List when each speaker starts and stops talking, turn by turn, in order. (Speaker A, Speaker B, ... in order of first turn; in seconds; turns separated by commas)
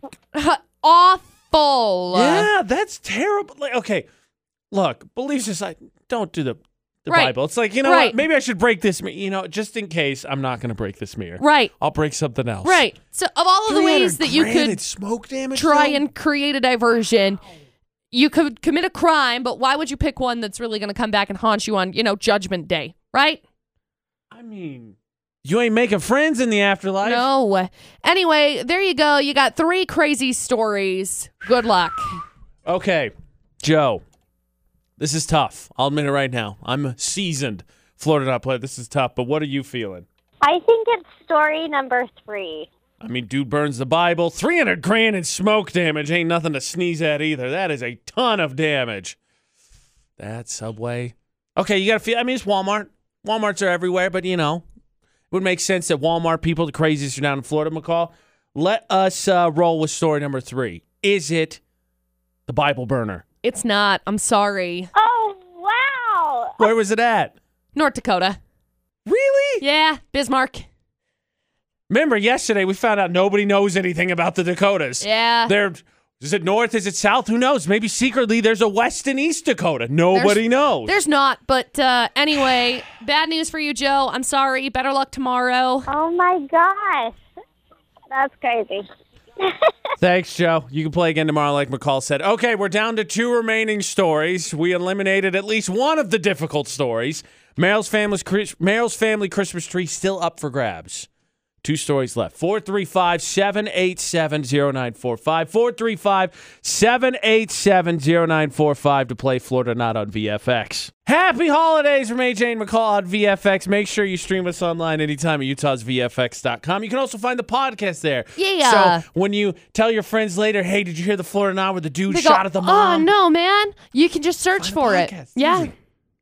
Speaker A: 0.3-2.5, Speaker B: 2.1-4.0, Speaker B: 4.7-12.8, Speaker A: 7.1-8.2, Speaker A: 11.4-11.7, Speaker A: 12.6-14.8, Speaker B: 13.7-16.0, Speaker A: 15.5-17.4, Speaker A: 18.1-23.4, Speaker B: 24.3-27.2, Speaker A: 27.0-32.2, Speaker B: 32.6-34.0, Speaker B: 35.0-40.0, Speaker C: 40.4-42.7, Speaker B: 43.0-49.2, Speaker B: 50.2-54.6, Speaker B: 55.3-61.6, Speaker B: 62.5-63.2, Speaker A: 63.4-64.9, Speaker C: 64.9-66.6, Speaker B: 66.6-67.3, Speaker A: 67.7-68.4, Speaker B: 69.0-69.6, Speaker A: 69.6-70.7, Speaker B: 71.9-80.9, Speaker A: 75.0-75.5, Speaker A: 80.1-85.9, Speaker C: 85.9-87.2, Speaker C: 88.1-88.9, Speaker B: 90.0-101.1, Speaker B: 101.6-123.1, Speaker A: 118.3-119.0, Speaker A: 122.1-125.7, Speaker B: 124.6-125.7